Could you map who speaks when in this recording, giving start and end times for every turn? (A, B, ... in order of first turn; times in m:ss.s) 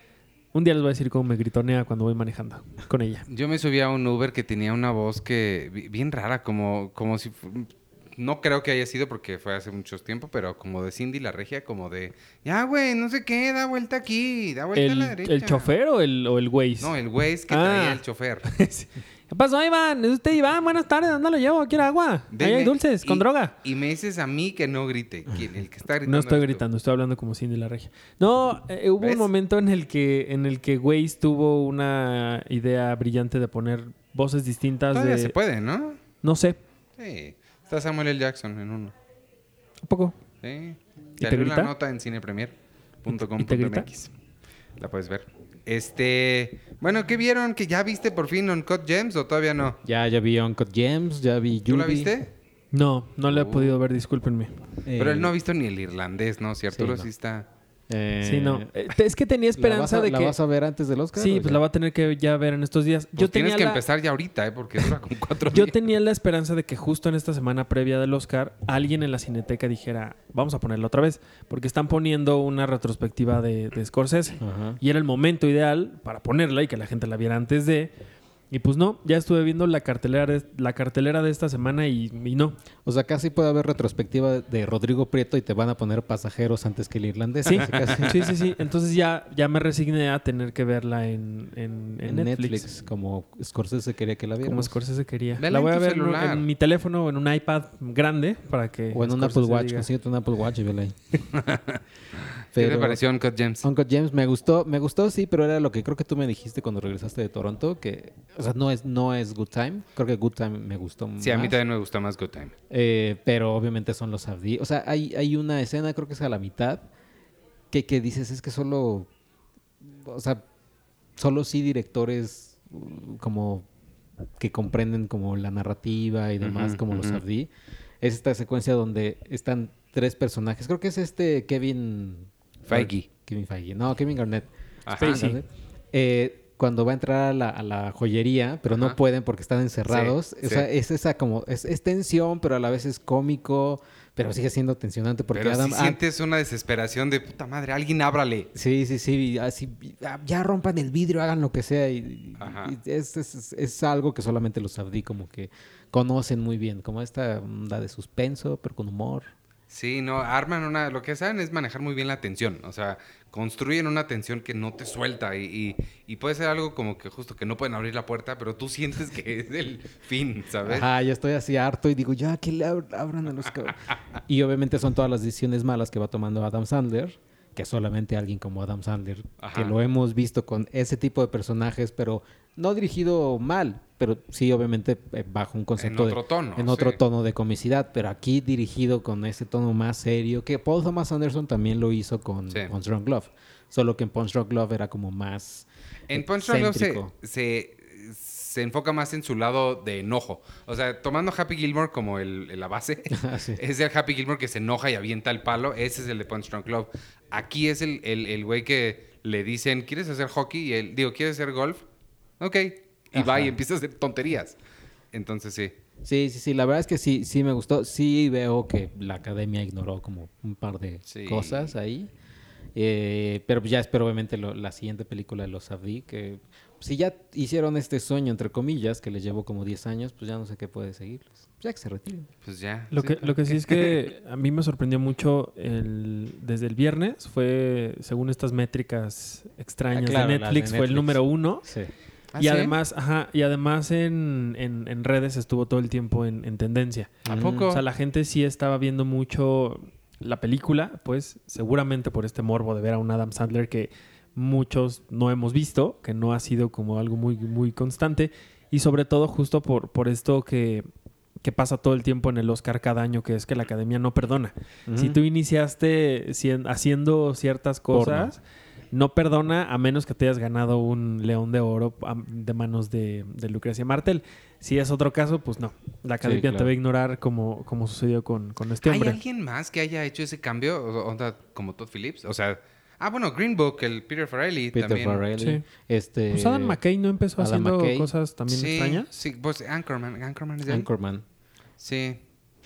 0:00.5-0:03.3 A
0:03.3-0:15.7 B
0:14.8-0:16.9 A
0:16.8-0:18.5 B
0:17.5-0:23.5 A
0:22.3-0:26.6 B
0:26.1-0:35.3 A
0:29.0-0:29.3 B
0:34.9-0:36.0 B
0:36.2-0:36.6 A
0:37.0-0:38.9 B
0:39.8-0:40.2 A
0:40.4-0:44.1 B
0:41.2-0:41.7 A
0:43.1-0:43.9 A
0:44.8-0:49.8 B
0:49.8-0:52.1 C
0:51.7-0:52.3 B
0:52.7-0:54.5 A
0:53.3-0:53.8 B
0:54.9-0:55.3 C
0:55.0-0:57.5 B
0:56.7-0:57.1 C
0:57.9-0:58.7 C
0:58.2-1:00.4 A
0:59.6-1:01.6 C
1:01.2-1:03.8 A
1:03.2-1:05.8 B
1:05.5-1:17.9 A
1:14.4-1:14.8 C
1:18.5-1:22.6 A
1:22.8-1:28.3 C
1:27.5-1:32.6 A
1:27.6-1:28.1 B
1:32.0-1:34.8 C
1:34.4-1:39.9 A
1:35.4-1:36.5 B
1:38.9-1:41.0 C
1:41.3-1:41.8 B
1:42.5-1:43.6 B
1:42.6-1:43.0 C
1:43.6-1:51.6 C
1:51.2-1:52.5 B
1:52.7-1:56.8 C
1:57.7-1:59.1 C
1:59.8-2:00.4 C
2:01.2-2:03.7 C
2:04.4-2:26.0 C
2:06.4-2:07.2 B
2:12.7-2:13.1 B
2:14.9-2:15.2 B
2:15.0-2:15.4 A
2:18.7-2:19.0 B
2:19.9-2:20.7 B
2:25.3-2:28.5 B
2:28.5-2:39.3 C
2:32.4-2:32.8 B
2:39.7-2:50.9 B
2:50.6-3:17.1 C
2:59.4-2:59.8 B
3:05.8-3:07.0 B
3:16.1-3:31.8 B
3:23.1-3:23.6 C
3:32.4-3:34.6 B
3:33.1-3:33.6 C
3:35.1-3:35.8 B
3:36.0-3:42.1 C
3:41.1-3:41.7 B
3:42.8-3:52.3 C
3:52.4-3:52.9 B
3:52.9-4:01.6 A
3:53.0-3:53.4 C
3:59.9-4:01.9 C
4:02.3-4:02.8 B
4:02.4-4:07.2 A
4:07.2-4:07.7 C
4:07.3-4:07.8 B
4:07.7-4:20.9 A
4:21.4-4:28.4 A
4:24.9-4:25.2 C
4:27.9-4:28.3 C
4:28.9-4:39.2 A
4:36.2-4:36.7 C
4:38.8-4:45.2 B
4:44.7-4:46.8 C
4:45.4-4:45.6 A
4:46.3-4:49.1 A
4:47.4-4:48.1 C
4:48.5-4:50.9 B
4:50.7-4:51.2 C
4:51.8-4:52.2 B